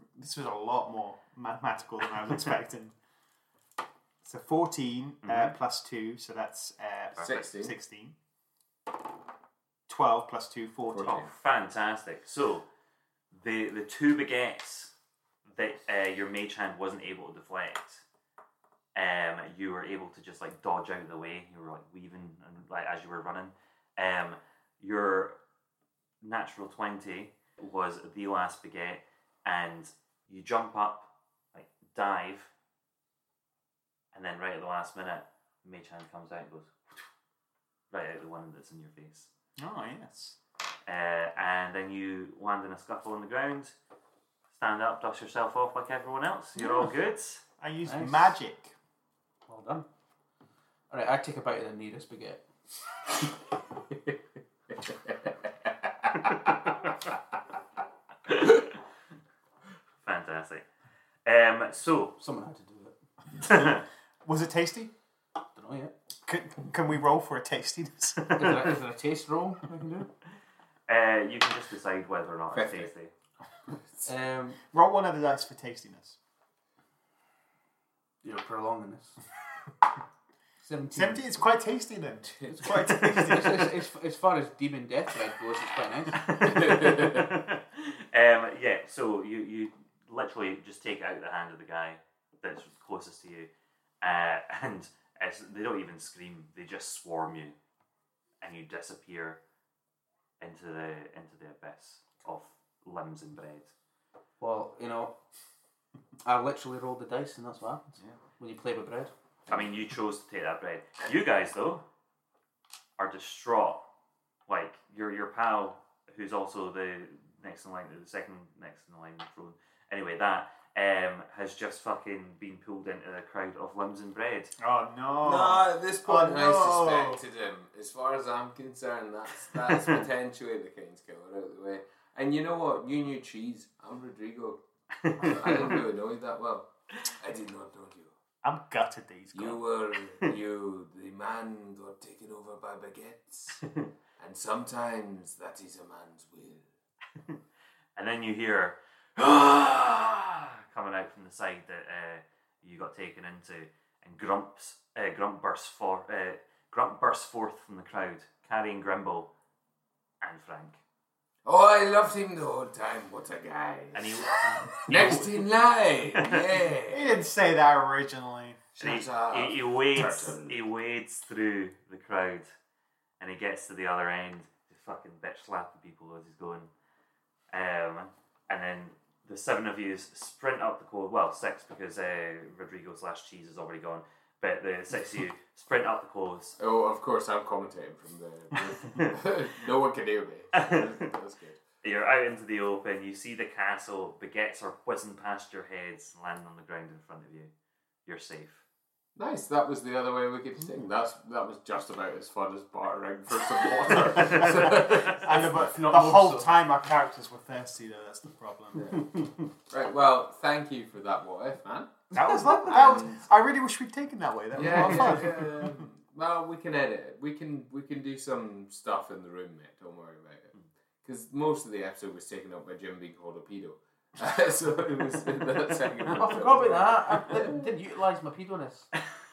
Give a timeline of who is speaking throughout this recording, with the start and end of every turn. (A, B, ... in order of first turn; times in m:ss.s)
0:00.2-0:02.9 A
0:04.2-0:08.2 A
0:05.2-0:05.5 B
0:07.2-0:07.8 C
0:09.9-0:11.3 A
0:10.9-0:11.3 C
0:11.0-0:12.6 B
0:13.3-0:14.9 B
0:15.4-0:18.0 B
0:19.0-0:25.4 B
0:26.2-0:32.5 B
0:34.1-0:37.0 B
0:37.9-0:39.3 B
0:39.6-0:40.4 A
0:40.9-0:43.8 B
0:44.5-0:47.4 B
0:47.6-0:48.7 A
0:47.8-0:48.4 D
0:49.5-0:49.9 D
0:50.9-0:52.4 D
0:56.3-0:56.6 B
0:58.3-0:58.8 B
1:00.0-1:00.7 B
1:01.2-1:02.2 B
1:02.2-1:03.0 D
1:03.4-1:03.8 B
1:04.2-1:04.9 A
1:05.6-1:05.9 D
1:06.3-1:08.4 A
1:08.3-1:08.6 B
1:08.3-1:10.1 D
1:10.9-1:13.1 B
1:12.5-1:12.9 C
1:14.0-1:14.6 D
1:14.7-1:16.2 A
1:18.2-1:19.2 D
1:20.6-1:21.4 D
1:20.9-1:23.7 A
1:22.4-1:26.6 D
1:26.2-1:33.5 B
1:26.5-1:27.2 C
1:34.0-1:37.6 B
1:38.4-1:39.4 B
1:40.4-1:43.7 B
1:44.4-1:45.2 D
1:46.2-1:49.1 D
1:49.5-1:51.8 B
1:53.0-1:53.8 B
1:54.5-2:04.5 B
2:04.6-2:07.2 A
2:05.2-2:18.1 C
2:09.6-2:10.0 B
2:15.0-2:15.7 B
2:18.4-2:19.6 A
2:19.3-2:23.6 C
2:23.6-2:23.9 B
2:24.2-2:26.7 C
2:28.0-2:39.3 B
2:40.2-2:40.8 B
2:41.4-2:44.3 C
2:43.9-2:45.5 B
2:44.9-2:47.2 C
2:46.1-2:46.5 B
2:46.9-2:48.8 A
2:48.8-2:50.6 C
2:48.8-2:52.5 B
2:53.2-2:56.7 B
2:57.5-3:06.6 B
3:06.6-3:11.6 C
3:08.8-3:09.2 B
3:10.5-3:11.1 B
3:11.8-3:17.5 B
3:18.1-3:18.6 B
3:19.2-3:25.5 C
3:24.2-3:29.1 A
3:24.4-3:25.0 B
3:25.3-3:26.5 D
3:28.7-3:29.1 C
3:29.7-3:33.2 C
3:32.1-3:35.8 A
3:34.5-3:40.5 C
3:41.0-3:47.7 C
3:46.1-3:48.9 D